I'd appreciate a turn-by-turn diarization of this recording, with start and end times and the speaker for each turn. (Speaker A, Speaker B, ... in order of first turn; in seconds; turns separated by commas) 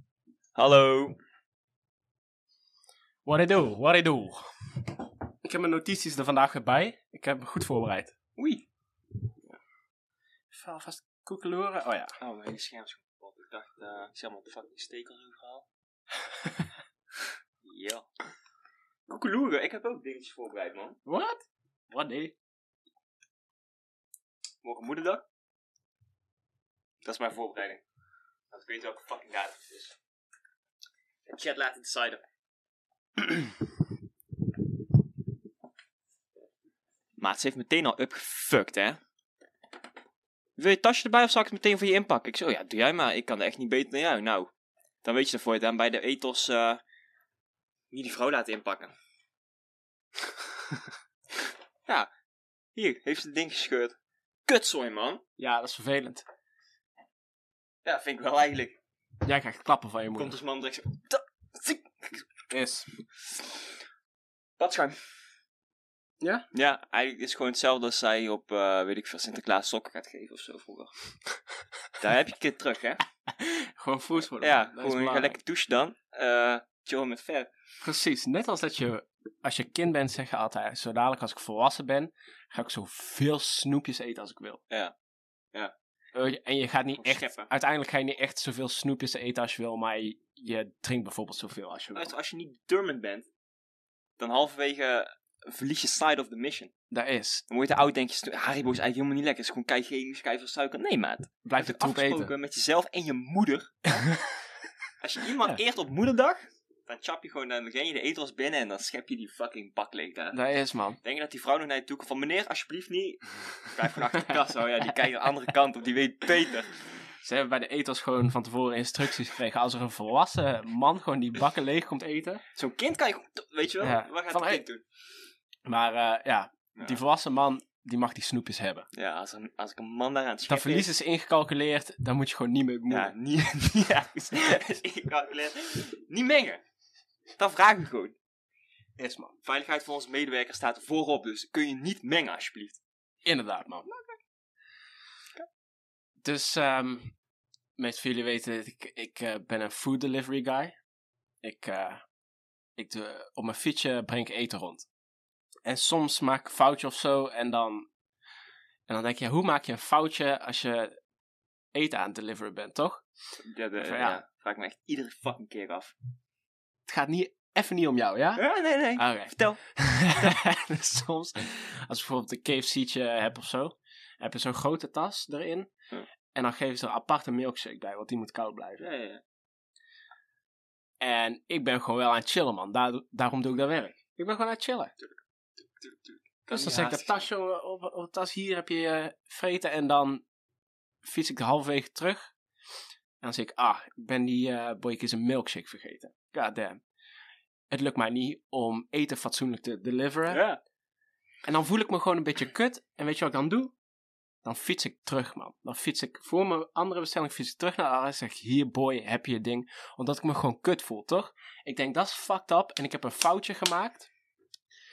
Speaker A: 0.6-1.2, Speaker B: 3.2-4.9, Speaker B: 5.4-8.1, Speaker A: 8.4-8.7, Speaker B: 10.5-12.2, Speaker A: 12.2-15.7, Speaker A: 17.6-18.1, Speaker A: 19.1-21.0, Speaker B: 21.1-22.3, Speaker A: 24.6-25.2, Speaker A: 27.0-27.8, Speaker A: 28.5-30.0, Speaker A: 31.3-32.2, Speaker A: 37.2-39.0, Speaker A: 40.6-44.5, Speaker A: 45.0-46.8, Speaker A: 47.9-48.9, Speaker A: 52.8-54.0, Speaker A: 54.5-55.2, Speaker B: 55.4-56.2, Speaker A: 57.9-58.8, Speaker B: 59.2-60.4, Speaker A: 60.1-62.2, Speaker B: 62.5-62.9, Speaker A: 64.6-65.0, Speaker A: 66.5-70.9, Speaker A: 72.0-73.0, Speaker B: 73.3-75.3, Speaker A: 74.4-77.5, Speaker B: 77.8-84.6, Speaker B: 86.1-92.1, Speaker A: 87.0-87.5, Speaker A: 91.9-93.3, Speaker A: 94.2-96.7, Speaker B: 96.9-97.4, Speaker A: 97.5-104.0, Speaker B: 101.5-102.3, Speaker A: 105.0-110.4, Speaker B: 110.3-111.0, Speaker A: 111.0-116.7, Speaker B: 117.2-122.4, Speaker A: 122.5-124.8, Speaker B: 123.8-124.6, Speaker B: 125.7-128.9, Speaker A: 128.9-130.9, Speaker B: 130.5-133.1, Speaker A: 132.9-136.6, Speaker A: 137.4-138.2, Speaker B: 139.0-139.3, Speaker A: 139.4-142.8, Speaker B: 143.2-143.9, Speaker B: 146.2-147.1, Speaker B: 147.8-150.8, Speaker B: 151.4-152.0, Speaker B: 152.8-154.9, Speaker B: 155.7-157.9, Speaker B: 158.9-160.9, Speaker B: 161.7-163.0, Speaker A: 163.4-165.9, Speaker B: 163.8-164.2, Speaker B: 166.9-168.4, Speaker A: 168.4-169.6, Speaker B: 169.0-175.7, Speaker B: 176.3-178.8, Speaker A: 178.8-179.2, Speaker B: 181.0-184.9, Speaker A: 185.8-187.3, Speaker B: 186.5-190.2, Speaker B: 191.0-192.3, Speaker B: 193.2-196.8, Speaker B: 197.7-200.4, Speaker A: 200.3-200.6, Speaker B: 201.4-203.7, Speaker B: 204.4-214.1